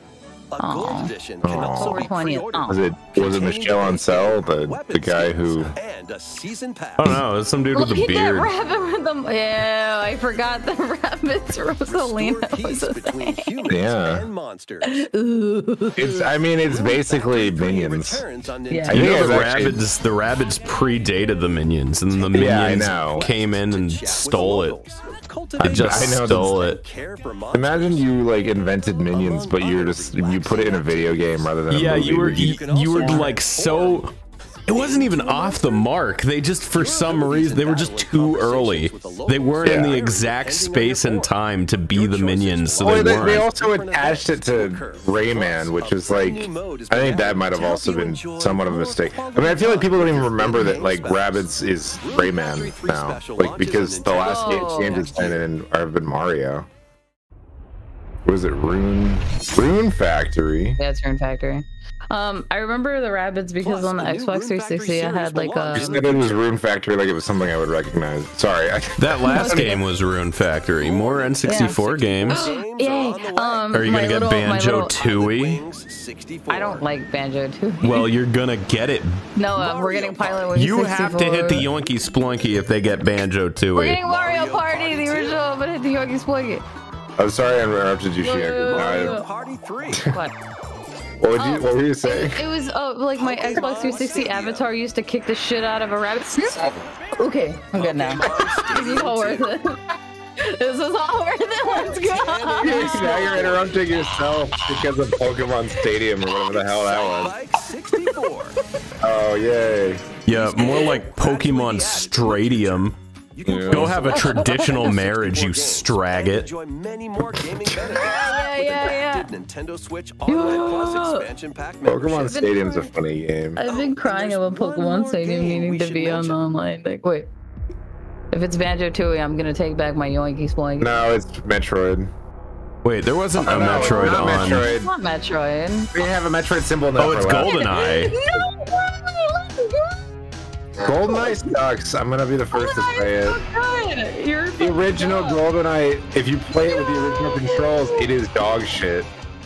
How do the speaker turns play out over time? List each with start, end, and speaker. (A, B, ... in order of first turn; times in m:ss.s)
0:00.5-0:07.2 A
0:00.6-0:02.8 B
0:01.4-0:02.1 C
0:02.6-0:05.8 C
0:07.0-0:08.5 D
0:07.7-0:13.8 B
0:11.6-0:15.1 A
0:13.7-0:14.3 C
0:14.9-0:16.3 B
0:16.0-0:18.2 C
0:16.6-0:19.6 A
0:18.7-0:19.0 B
0:18.8-0:19.8 C
0:18.9-0:24.8 D
0:22.1-0:28.2 A
0:22.3-0:23.3 C
0:25.6-0:26.6 C
0:25.6-0:26.8 D
0:27.5-0:33.3 C
0:29.1-0:34.1 A
0:31.7-0:34.1 D
0:34.7-0:43.5 D
0:34.7-0:35.9 A
0:36.7-0:55.4 A
0:39.6-0:40.0 C
0:42.8-0:56.7 C
0:54.1-0:55.2 B
0:58.2-1:00.8 C
1:00.8-1:06.1 B
1:03.6-1:06.4 A
1:05.7-1:09.8 C
1:09.0-1:12.5 D
1:09.2-1:09.6 B
1:10.8-1:16.9 A
1:11.4-1:11.8 B
1:12.3-1:15.0 B
1:13.7-1:15.6 D
1:16.5-1:18.1 B
1:17.8-1:19.2 D
1:19.4-1:21.6 B
1:19.5-1:21.2 A
1:20.6-1:24.0 D
1:23.8-1:26.6 B
1:24.0-1:25.4 A
1:27.2-1:29.2 C
1:28.2-1:29.3 B
1:28.5-1:30.1 A
1:29.9-1:30.2 C
1:30.1-1:30.3 B
1:31.2-1:32.4 C
1:31.3-1:39.8 B
1:33.2-1:34.7 A
1:37.8-1:39.6 A
1:40.4-1:43.5 B
1:41.6-1:43.8 A
1:42.6-1:47.4 C
1:46.5-1:48.6 A
1:49.0-1:50.0 C
1:50.3-1:53.0 D
1:50.3-2:02.6 A
1:53.4-1:54.0 C
1:53.7-1:56.5 D
1:54.1-1:54.8 B
1:57.9-1:59.3 B
2:00.3-2:01.3 B
2:01.8-2:03.6 C
2:02.2-2:02.9 B
2:03.6-2:07.3 B
2:03.6-2:06.4 A
2:08.3-2:10.9 B
2:10.8-2:12.1 C
2:12.8-2:14.6 D
2:13.4-2:14.9 C
2:13.5-2:15.9 B
2:15.9-2:17.6 C
2:17.0-2:18.2 D
2:17.5-2:20.0 B
2:20.8-2:23.4 C
2:20.8-2:21.4 B
2:22.5-2:25.4 B
2:24.6-2:29.1 C
2:26.5-2:28.1 B